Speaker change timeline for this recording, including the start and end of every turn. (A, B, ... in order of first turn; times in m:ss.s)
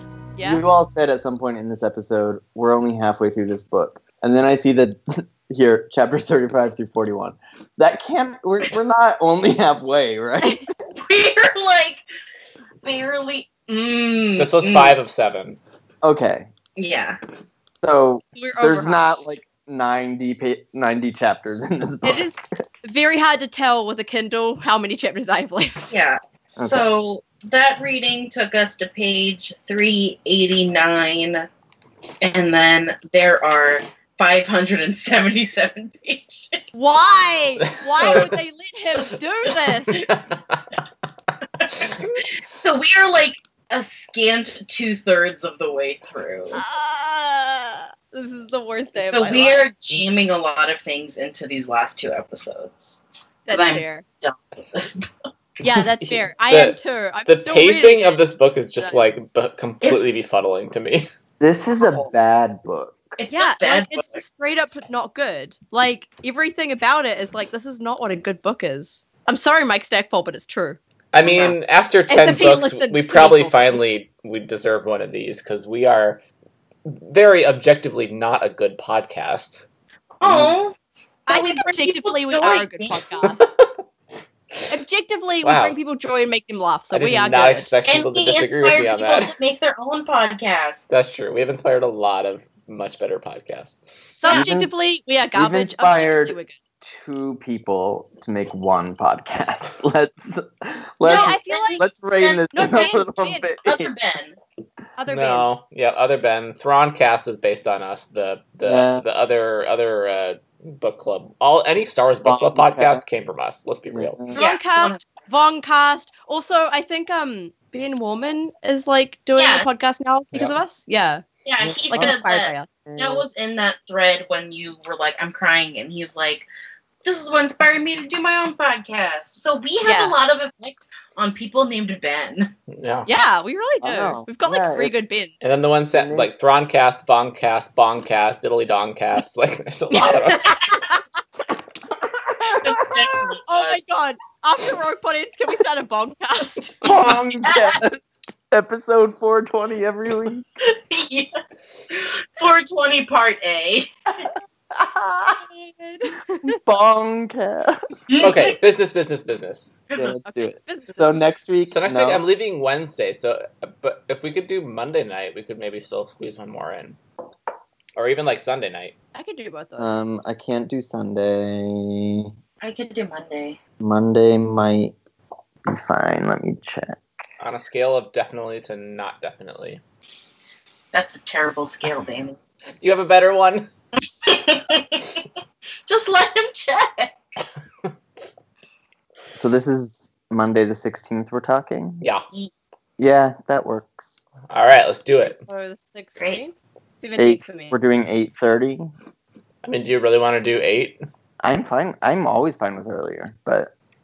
0:00.4-0:10.7 A
0:11.0-0:12.0 B
0:12.8-0:15.0 B
0:14.4-0:15.6 C
0:16.0-0:16.5 A
0:16.8-0:17.2 B
0:17.8-0:22.4 A
0:18.4-0:19.1 D
0:22.0-0:25.9 D
0:25.9-0:31.5 B
0:26.6-0:26.9 A
0:32.2-0:36.8 B
0:36.8-0:40.1 D
0:37.7-0:38.3 C
0:38.0-0:38.4 B
0:39.9-0:40.7 C
0:41.6-0:46.6 B
0:41.8-0:42.1 C
0:46.5-0:49.7 D
0:49.1-0:55.1 B
0:53.5-0:54.0 D
0:55.6-0:58.2 D
0:56.5-1:01.1 C
0:58.8-0:59.1 D
0:59.8-1:00.1 B
1:01.4-1:03.2 A
1:01.8-1:02.1 B
1:03.2-1:04.2 B
1:03.3-1:10.8 D
1:11.1-1:16.2 C
1:12.1-1:13.8 D
1:16.8-1:19.7 C
1:20.2-1:20.8 B
1:21.3-1:23.1 B
1:21.3-1:23.5 D
1:24.7-1:27.7 D
1:25.4-1:25.8 C
1:26.9-1:29.4 C
1:27.9-1:30.8 B
1:30.9-1:33.8 C
1:34.1-1:36.6 D
1:34.2-1:34.5 B
1:34.3-1:34.7 A
1:35.4-1:43.9 A
1:41.0-1:41.8 D
1:41.0-1:42.8 B
1:42.5-1:43.4 D
1:43.6-1:44.4 B
1:45.0-1:45.5 D
1:45.1-1:54.2 C
1:48.6-1:49.0 A
1:52.2-1:53.0 A
1:53.9-1:54.4 A
1:54.3-1:55.1 B
1:54.3-2:01.2 D
1:59.4-1:59.7 B
2:01.4-2:06.5 B
2:01.6-2:02.1 A
2:01.9-2:02.7 D
2:02.9-2:03.3 A
2:07.0-2:12.5 B
2:09.8-2:10.2 D
2:12.7-2:13.1 C
2:13.1-2:15.3 D
2:13.8-2:15.0 A
2:15.4-2:20.5 C
2:15.9-2:16.3 A
2:19.9-2:20.9 B
2:22.4-2:23.8 B
2:22.4-2:22.7 A
2:23.5-2:26.8 D
2:26.8-2:30.4 A
2:26.9-2:27.8 B
2:30.6-2:31.3 B
2:31.9-2:33.9 B
2:34.7-2:35.4 A
2:36.1-2:36.5 D
2:36.4-2:38.0 A
2:38.1-2:38.6 B
2:38.2-2:39.7 C
2:40.0-2:42.2 A
2:40.2-2:41.3 D
2:41.7-2:47.0 C
2:48.0-2:49.0 C
2:49.2-2:50.0 D
2:49.8-2:52.3 A
2:52.6-2:53.6 B
2:53.8-2:54.9 A
2:55.7-2:57.0 A
2:57.4-2:59.8 C
3:00.9-3:02.4 B
3:02.8-3:03.7 C
3:04.2-3:05.0 B
3:05.9-3:07.2 B
3:09.4-3:12.0 A
3:13.0-3:14.2 A
3:14.5-3:15.4 C
3:15.2-3:17.8 D
3:17.2-3:18.9 A
3:19.6-3:21.0 C
3:21.4-3:23.7 A